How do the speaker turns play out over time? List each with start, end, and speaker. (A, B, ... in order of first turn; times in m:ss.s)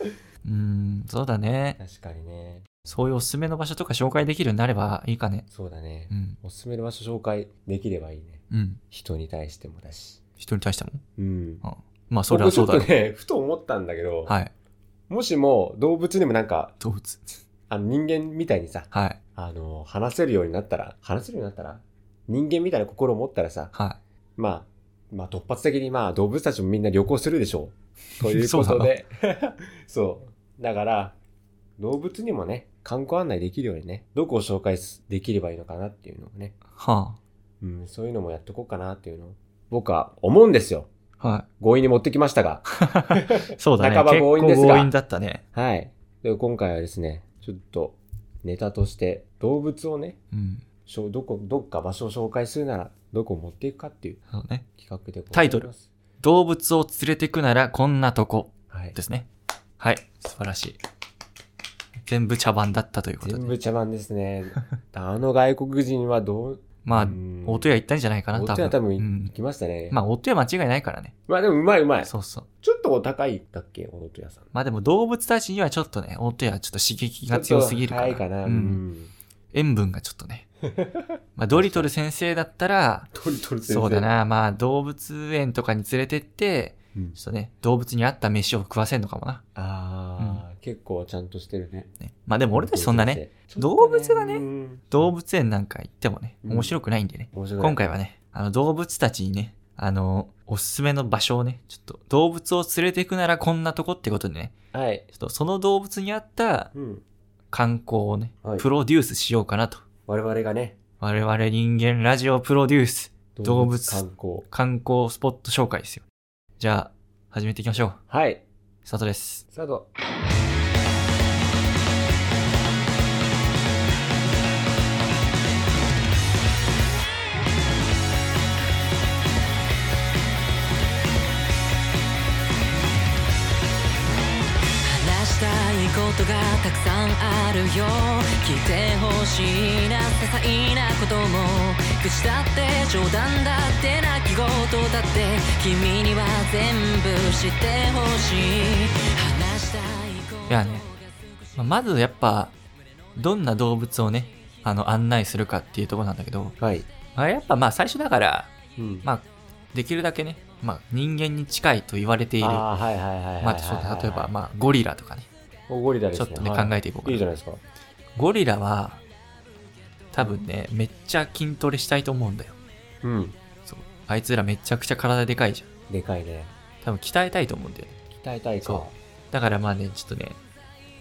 0:00.4-0:01.8 A
0:01.8-0:02.7 B
0:02.9-0:05.4 A
0:05.5-0:10.2 B
0:06.1-0:06.4 A
0:08.5-0:08.8 A
0:10.4-0:11.0 A
0:11.2-0:11.6 B
0:11.6-0:12.9 A
0:12.3-0:14.4 B
0:14.2-0:14.5 A
0:15.1-0:16.7 B
0:16.8-0:17.3 A
0:17.7-0:23.7 B
0:18.9-0:19.2 A
0:23.7-0:24.0 A
0:24.4-0:31.2 B
0:28.2-0:28.9 A
0:31.8-0:36.6 B
0:36.7-0:37.2 A
0:37.6-0:40.9 B
0:41.2-0:41.4 A
0:41.6-0:44.9 B
0:42.8-0:45.4 A
0:45.5-0:50.2 B
0:50.3-0:50.6 A
0:50.8-0:54.2 B
0:54.3-0:54.6 A
0:54.7-0:55.9 B
0:55.3-0:55.7 A
0:56.2-0:59.3 A
0:58.7-0:59.0 B
0:59.8-1:00.8 A
1:02.0-1:03.5 A
1:03.2-1:07.7 B
1:06.8-1:09.3 A
1:08.3-1:10.0 B
1:09.9-1:11.1 A
1:11.3-1:12.1 B
1:12.0-1:12.5 A
1:12.6-1:14.5 B
1:14.5-1:18.8 A
1:17.3-1:19.1 B
1:19.5-1:20.4 A
1:20.6-1:21.9 B
1:21.4-1:23.1 A
1:23.1-1:24.1 B
1:23.6-1:29.4 A
1:29.5-1:31.9 B
1:32.0-1:44.5 A
1:32.5-1:35.1 B
1:36.4-1:36.8 B
1:37.3-1:37.8 B
1:44.7-1:45.1 B
1:45.1-1:46.7 A
1:46.7-1:47.0 B
1:47.5-1:49.8 A
1:50.1-1:50.8 B
1:51.0-1:56.0 A
1:53.4-1:54.4 B
1:56.6-1:58.0 A
1:58.1-1:58.4 B
1:58.8-1:59.4 A
1:59.5-1:59.9 B
2:14.8-2:31.4 C
2:30.5-2:30.8 A
2:31.5-2:32.5 A
2:33.1-2:36.6 A
2:36.6-2:36.9 B
2:37.1-2:38.5 A
2:38.8-2:39.1 B
2:39.0-2:42.7 A
2:42.4-2:44.3 B
2:43.4-2:45.3 A
2:45.7-2:47.6 B
2:46.1-2:47.2 A
2:48.2-2:49.0 A
2:50.1-2:52.6 A
2:53.0-2:53.4 B
2:53.6-2:55.7 A
2:55.9-2:56.5 B
2:56.8-2:58.0 A
2:58.1-2:59.0 B
2:58.6-3:00.4 A